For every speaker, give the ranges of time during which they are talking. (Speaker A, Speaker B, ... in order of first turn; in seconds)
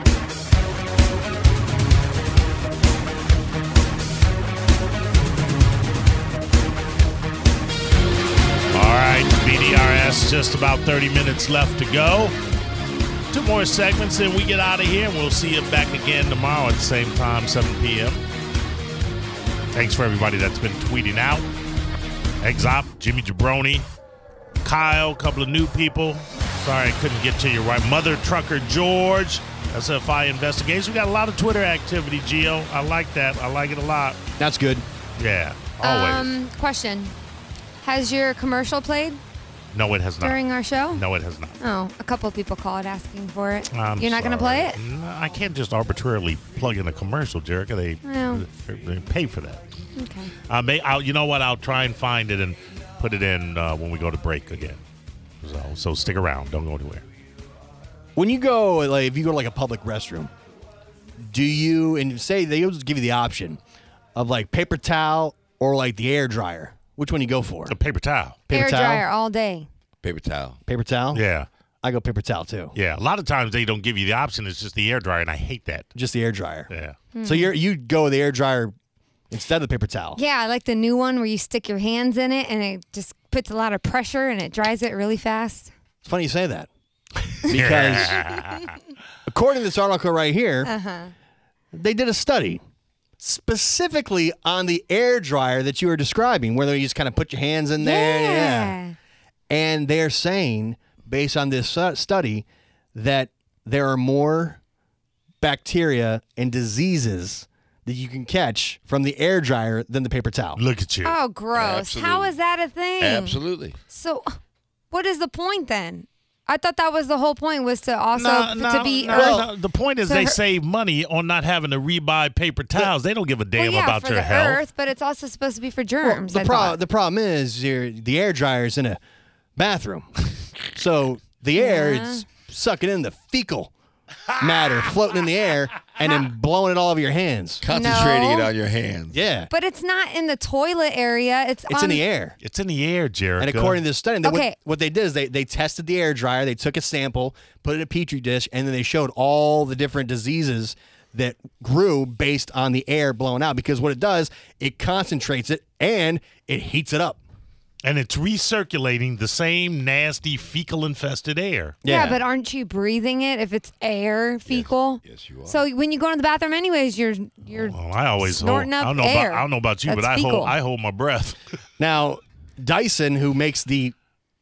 Speaker A: 8.7-12.3, 13.3-18.2, 19.7-21.4, 22.4-23.9, 24.6-34.2, 35.2-36.3, 39.7-41.6, 43.7-49.6, 50.5-54.8, 55.4-57.0, 67.7-68.4, 71.1-71.5, 72.7-75.9, 76.7-77.0, 87.5-88.7, 110.5-111.2, 118.1-124.6, 142.4-143.8, 157.8-161.8, 167.6-171.4
Speaker B: 34.4-34.8, 58.1-60.3, 61.2-63.6, 64.1-67.8, 68.5-69.0, 70.7-71.2, 71.8-72.7, 75.9-76.7, 77.2-78.7, 79.3-80.2, 86.0-86.7, 87.5-88.2, 89.2-90.7, 91.7-92.6, 93.2-98.8, 99.5-104.6, 105.4-110.6, 119.1-119.5, 126.0-129.0, 129.6-133.7, 134.4-137.6, 139.1-139.5, 141.7-142.4, 143.4-157.2, 161.8-162.2, 171.8-173.9
Speaker C: 35.8-37.1, 37.8-39.2, 40.2-41.0, 41.6-44.8, 48.0-48.5, 50.0-50.3, 68.5-69.7, 77.1-77.5, 80.1-85.7, 90.6-91.1, 97.8-99.0, 111.0-114.3, 114.9-119.4, 120.0-120.4, 123.5-126.8, 131.5-132.2, 137.7-138.5, 139.5-142.0, 144.2-144.5, 161.8-170.5
Speaker D: 70.0-70.6, 111.5-112.3, 113.0-113.8, 137.6-139.2, 164.5-165.6